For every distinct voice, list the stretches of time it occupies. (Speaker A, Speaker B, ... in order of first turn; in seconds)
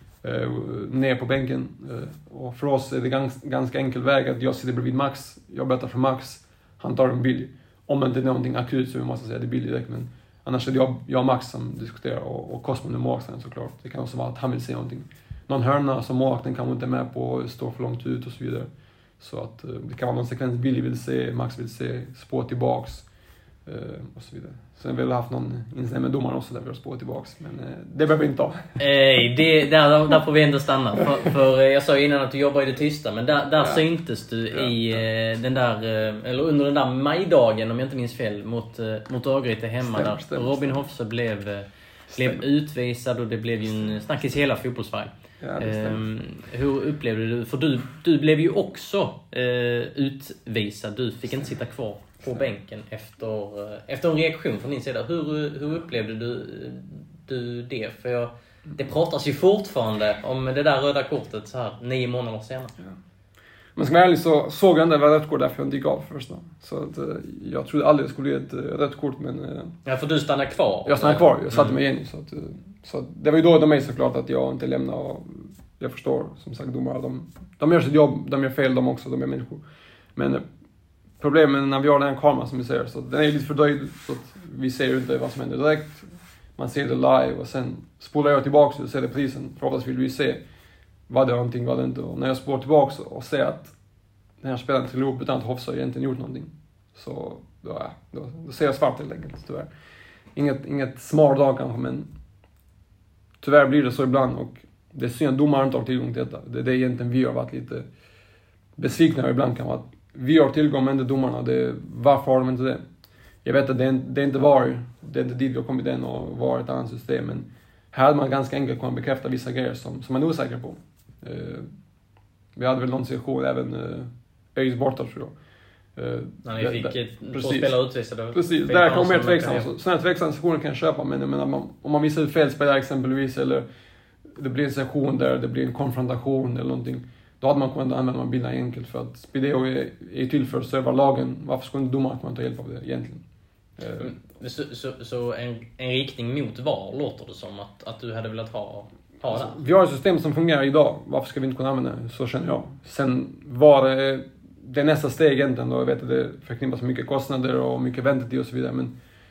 Speaker A: 0.2-23.1, 23.6-28.8, 33.6-33.8, 34.5-35.0, 39.8-40.7, 42.1-42.4, 45.4-46.0, 63.7-69.7, 70.8-79.6, 80.1-80.5, 81.2-90.4, 91.1-93.7, 94.4-99.7, 100.3-102.1, 103.4-107.9, 108.8-112.8, 113.4-121.7, 122.5-125.3, 126.0-127.7, 128.3-133.7, 134.2-143.2, 143.8-144.1, 149.3-158.9
Speaker B: 28.8-62.7, 69.8-71.7, 126.4-129.7, 144.0-149.6